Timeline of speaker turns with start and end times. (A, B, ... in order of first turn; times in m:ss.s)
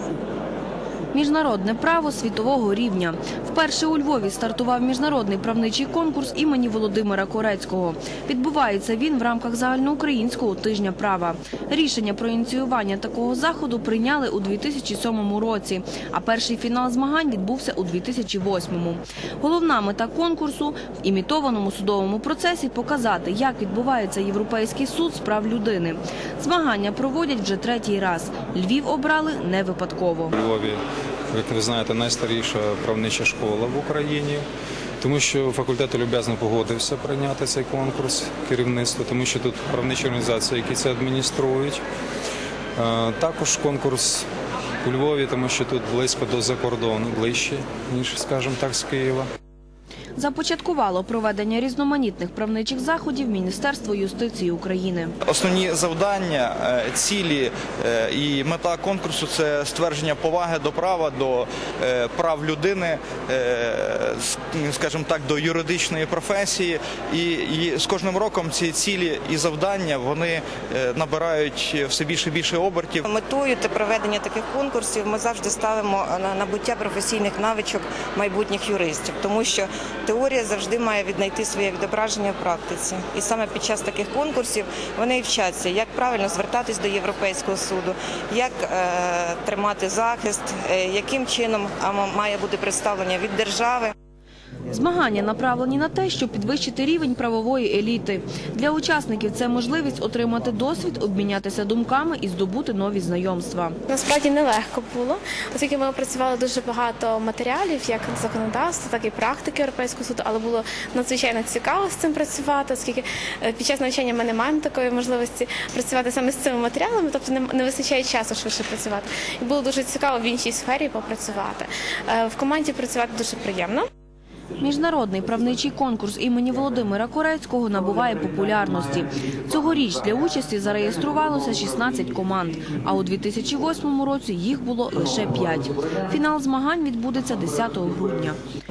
0:01.1-0:30.3 A
0:30.4-0:34.4 B
0:35.0-0:41.8 B
0:42.8-0:44.2 B
0:44.8-0:49.3 B
0:50.2-0:55.1 A
0:55.2-1:13.0 C
1:13.1-1:33.9 D
1:34.7-1:43.8 A
1:43.9-2:03.8 E
2:04.6-2:18.4 A